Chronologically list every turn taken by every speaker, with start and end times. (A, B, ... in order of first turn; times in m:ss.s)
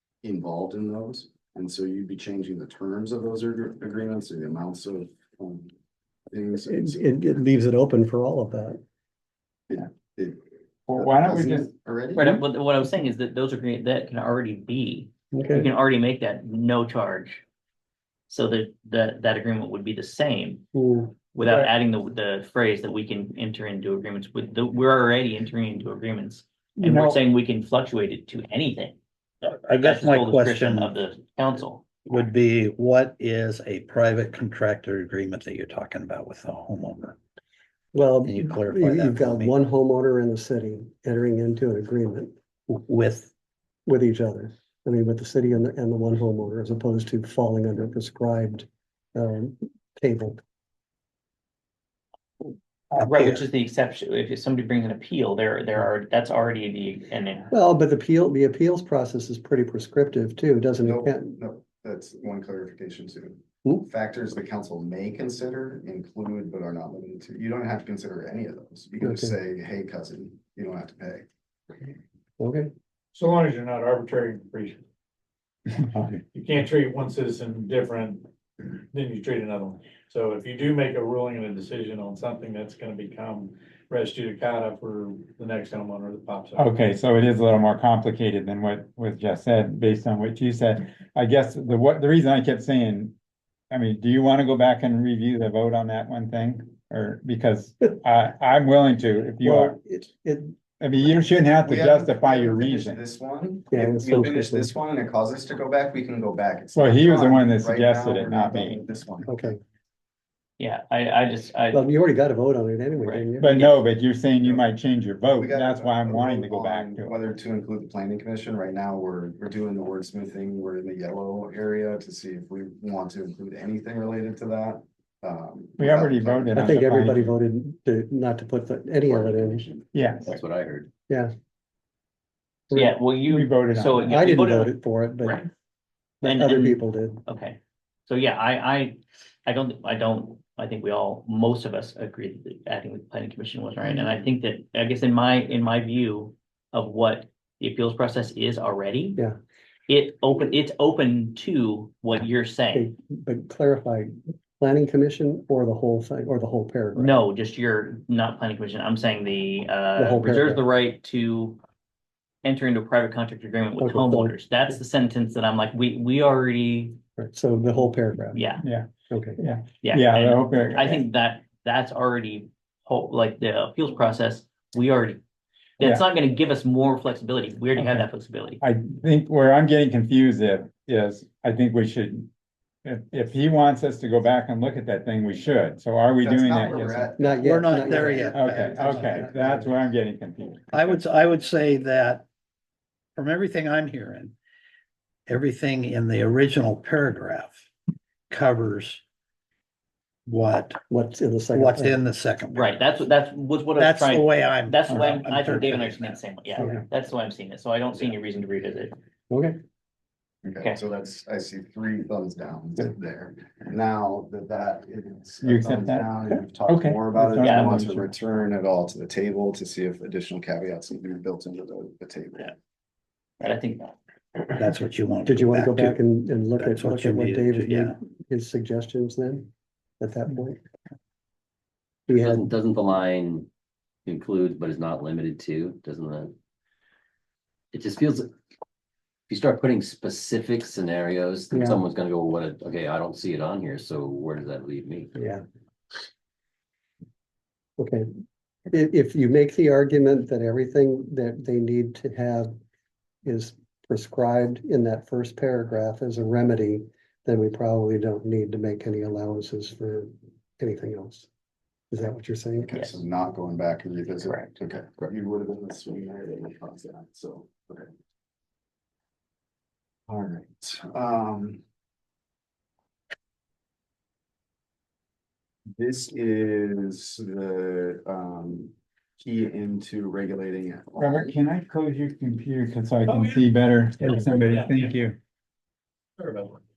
0:00.2-0:05.7 A
0:06.3-0:07.0 A
0:06.7-0:08.8 B
0:09.7-0:10.4 A
0:10.9-0:11.7 C
0:10.9-0:12.3 A
0:12.1-0:17.4 D
0:15.3-0:15.7 B
0:18.3-0:20.6 D
0:20.7-0:21.2 B
0:21.3-0:29.0 D
0:21.4-0:21.7 C
0:26.8-0:27.2 C
0:29.4-0:30.9 E
0:29.7-0:31.9 D
0:32.1-0:37.2 E
0:37.9-0:42.3 B
0:38.2-0:39.5 E
0:42.8-0:43.3 E
0:43.9-0:50.4 B
0:52.9-0:57.5 D
0:53.0-0:53.4 E
0:57.5-1:01.4 B
1:00.8-1:11.2 A
1:09.0-1:09.3 B
1:12.4-1:12.7 B
1:13.1-1:14.8 F
1:16.3-1:18.2 F
1:18.9-1:26.7 F
1:26.6-1:33.1 C
1:33.7-1:39.8 C
1:39.4-1:40.5 B
1:40.8-1:43.0 C
1:41.6-1:49.5 A
1:43.7-1:44.7 B
1:46.7-1:48.8 C
1:49.3-1:49.6 B
1:50.6-1:51.8 D
1:51.7-1:53.6 B
1:53.0-1:53.8 D
1:53.4-1:57.1 C
1:55.4-2:06.8 A
2:05.8-2:07.3 C
2:06.5-2:09.6 B
2:09.9-2:10.3 C
2:10.2-2:10.9 G
2:12.7-2:13.0 B
2:12.7-2:15.5 D
2:13.3-2:14.2 C
2:14.0-2:15.4 B
2:16.2-2:17.2 B
2:16.2-2:29.2 D
2:29.9-2:32.9 D
2:32.7-2:37.2 B
2:37.0-2:41.6 D
2:40.0-2:40.6 B
2:42.4-2:47.0 D
2:43.8-2:44.3 B
2:47.2-2:48.4 B
2:48.3-2:48.6 D
2:48.6-2:51.0 C
2:49.1-2:49.4 B
2:49.8-2:55.2 D
2:55.8-2:58.6 D
2:57.8-2:58.1 C
2:58.6-3:02.3 C
3:02.8-3:07.1 C
3:06.2-3:09.2 A
3:07.2-3:09.8 B
3:07.4-3:09.0 E
3:08.3-3:10.9 C
3:10.7-3:12.2 E
3:13.2-3:14.3 E
3:15.3-3:17.7 E
3:18.3-3:19.0 E
3:20.3-3:20.8 E
3:20.9-3:22.0 B
3:21.5-3:22.8 E
3:22.5-3:28.9 D
3:23.8-3:26.2 E
3:26.6-3:26.8 B
3:29.3-3:29.6 B
3:30.4-3:42.5 A
3:35.4-3:38.1 C
3:37.4-3:37.8 D
3:43.4-3:44.6 D
3:44.6-3:46.0 E
3:45.2-3:49.5 B
3:46.6-3:47.9 E
3:50.0-3:50.6 B
3:52.1-3:52.5 B
3:52.2-3:53.5 G
3:54.0-3:56.3 G
3:57.7-3:58.3 G
3:59.3-4:05.1 G
4:01.5-4:01.8 B
4:05.2-4:05.4 B
4:07.8-4:08.0 B
4:08.7-4:12.5 B
4:13.2-4:21.3 B
4:21.9-4:22.7 B
4:22.6-4:27.9 A
4:22.7-4:23.0 D
4:30.1-4:31.6 A
4:35.8-4:41.4 A
4:41.0-4:45.2 C
4:43.1-4:43.4 F
4:44.0-4:44.9 F
4:46.2-4:46.6 F